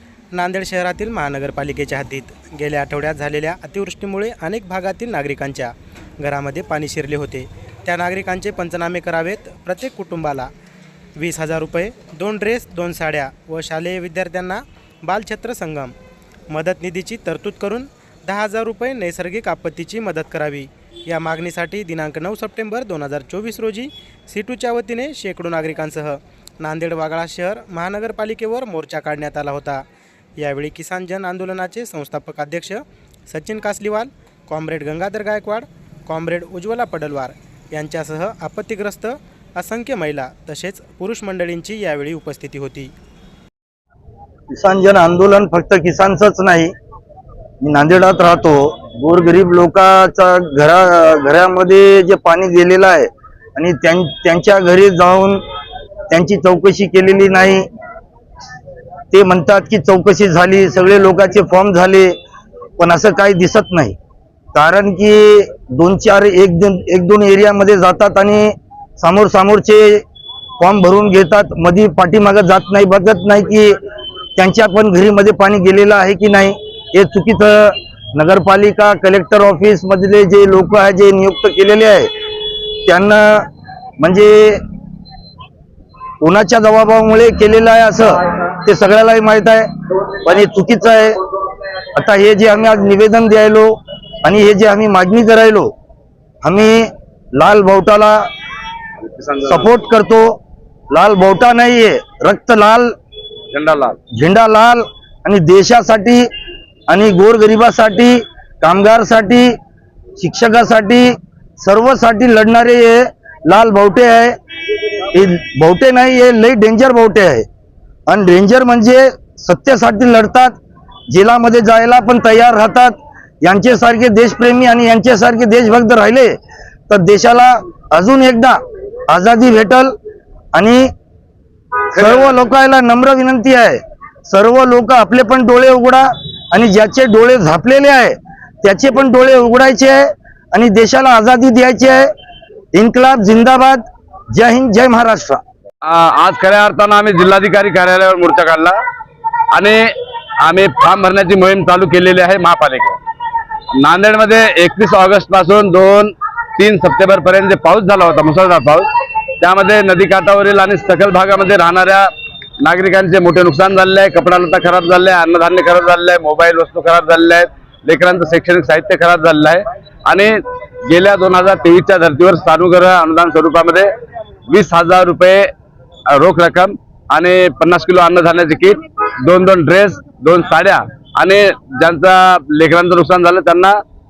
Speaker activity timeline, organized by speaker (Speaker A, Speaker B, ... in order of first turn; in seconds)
Speaker A: 0.3-10.5, 11.2-15.9, 16.5-29.8, 30.4-42.9
Speaker B: 44.5-46.7, 47.6-55.4, 56.1-57.6, 59.1-62.1, 62.8-64.0, 64.5-70.0, 70.6-73.7, 74.4-82.1, 82.9-83.5, 84.0-84.6, 86.2-89.7, 90.2-91.2, 92.0-93.7, 94.2-95.7, 96.4-98.2, 99.4-100.4, 100.9-102.9, 104.1-106.2, 106.9-109.5, 110.2-114.3, 115.1-117.5, 118.1-120.6, 121.1-126.3, 126.9-128.6, 129.1-129.9, 130.5-130.9, 131.9-142.1, 142.7-145.4
Speaker C: 99.0-99.7, 103.5-104.0, 131.9-132.5, 145.8-148.8, 149.5-149.8, 150.4-153.0, 153.8-158.9, 159.4-162.1, 162.6-170.3, 170.9-173.9, 174.5-175.4, 176.1-183.8